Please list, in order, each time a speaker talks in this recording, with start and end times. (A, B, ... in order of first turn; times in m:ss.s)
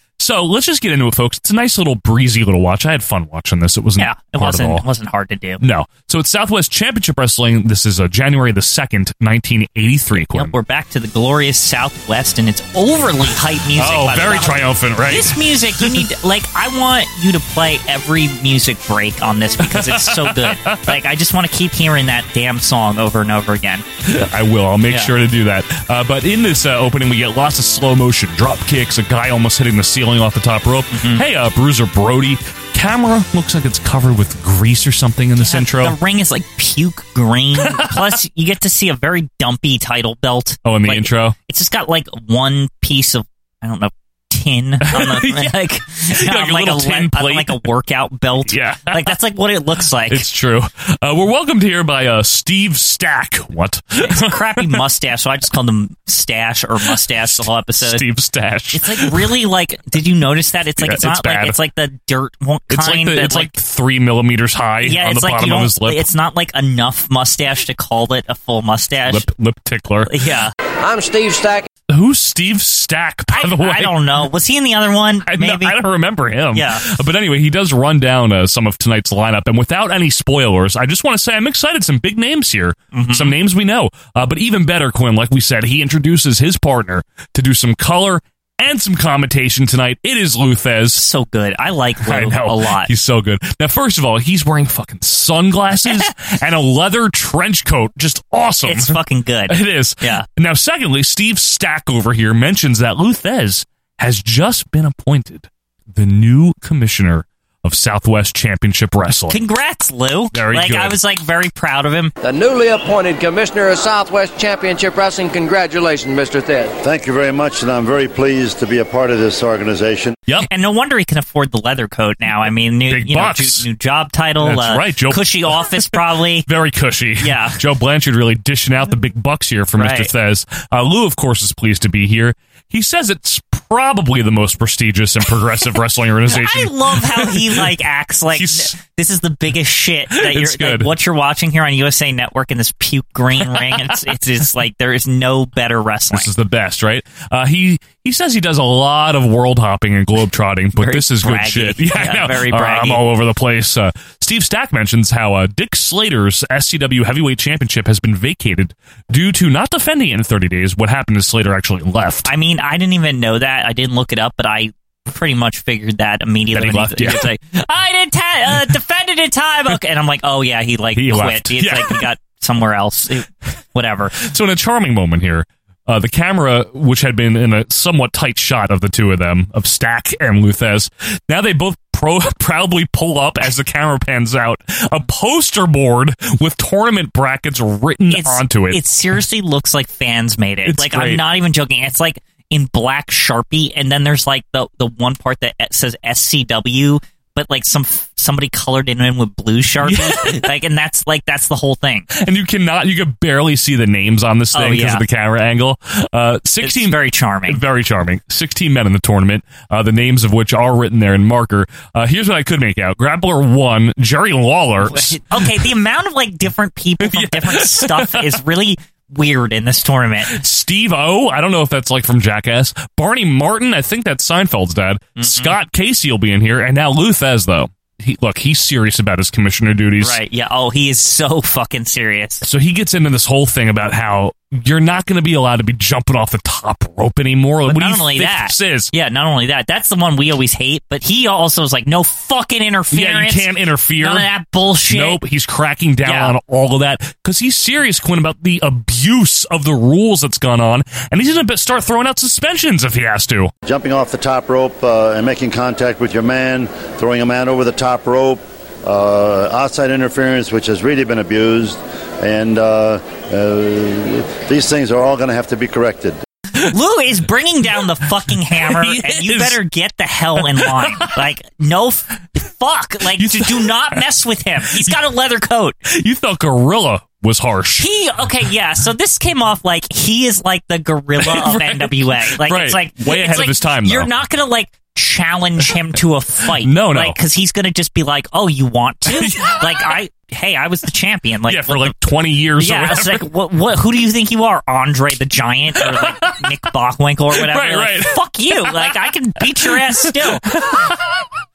0:00.2-0:04.8 A
0:04.0-0:05.6 B
0:05.6-0:10.5 A
0:10.1-0:23.8 B
0:13.8-0:16.0 A
0:19.6-0:21.0 A
0:24.0-0:36.0 A
0:30.9-0:31.2 B
0:35.4-0:50.2 B
0:37.6-0:38.2 A
0:40.6-0:41.4 A
0:44.8-0:47.6 A
0:48.5-0:49.1 A
0:50.1-0:54.8 A
0:54.0-0:58.0 B
0:56.9-0:59.3 A
0:58.7-1:03.5 B
1:00.8-1:01.6 A
1:02.7-1:06.1 A
1:04.8-1:09.2 B
1:09.1-1:10.1 A
1:10.1-1:10.5 B
1:10.8-1:11.7 C
1:11.9-1:14.3 A
1:13.3-1:15.8 B
1:15.2-1:31.0 A
1:16.5-1:16.9 B
1:22.9-1:23.3 B
1:30.9-1:32.9 B
1:32.0-1:49.4 A
1:38.6-1:40.2 B
1:49.3-1:52.1 B
1:50.3-1:51.0 A
1:52.2-1:56.7 C
1:56.8-2:00.1 D
2:00.5-2:06.5 B
2:02.9-2:03.7 A
2:04.4-2:17.7 A
2:07.2-2:07.6 B
2:09.8-2:10.1 B
2:16.3-2:26.3 B
2:18.3-2:18.7 A
2:20.1-2:20.9 A
2:23.4-2:24.0 A
2:26.1-2:42.3 A
2:30.8-2:33.0 B
2:42.2-2:54.2 B
2:46.5-2:47.3 A
2:50.9-2:52.0 A
2:54.2-3:08.8 A
3:08.1-3:22.1 B
3:10.6-3:11.2 A
3:19.8-3:20.5 A
3:22.1-3:35.7 A
3:24.5-3:25.0 B
3:26.6-3:27.6 B
3:34.8-3:40.4 B
3:37.0-3:38.4 A
3:40.2-3:50.2 A
3:45.2-3:45.6 B
3:50.0-3:52.4 B
3:52.4-3:58.9 A
3:57.6-4:05.2 B
4:02.9-4:04.3 A
4:04.9-4:13.5 A
4:06.0-4:06.4 B
4:13.6-4:26.2 D
4:26.6-4:35.8 B
4:28.5-4:29.6 A
4:30.4-4:31.1 A
4:33.1-4:34.0 A
4:34.7-4:34.9 A
4:35.8-4:37.8 A
4:37.8-4:51.9 B
4:41.2-4:44.1 A
4:46.4-4:47.2 A
4:49.1-4:50.0 A
4:51.5-4:53.2 A
4:52.6-5:00.5 B
4:55.8-4:56.4 A
4:57.3-5:01.1 A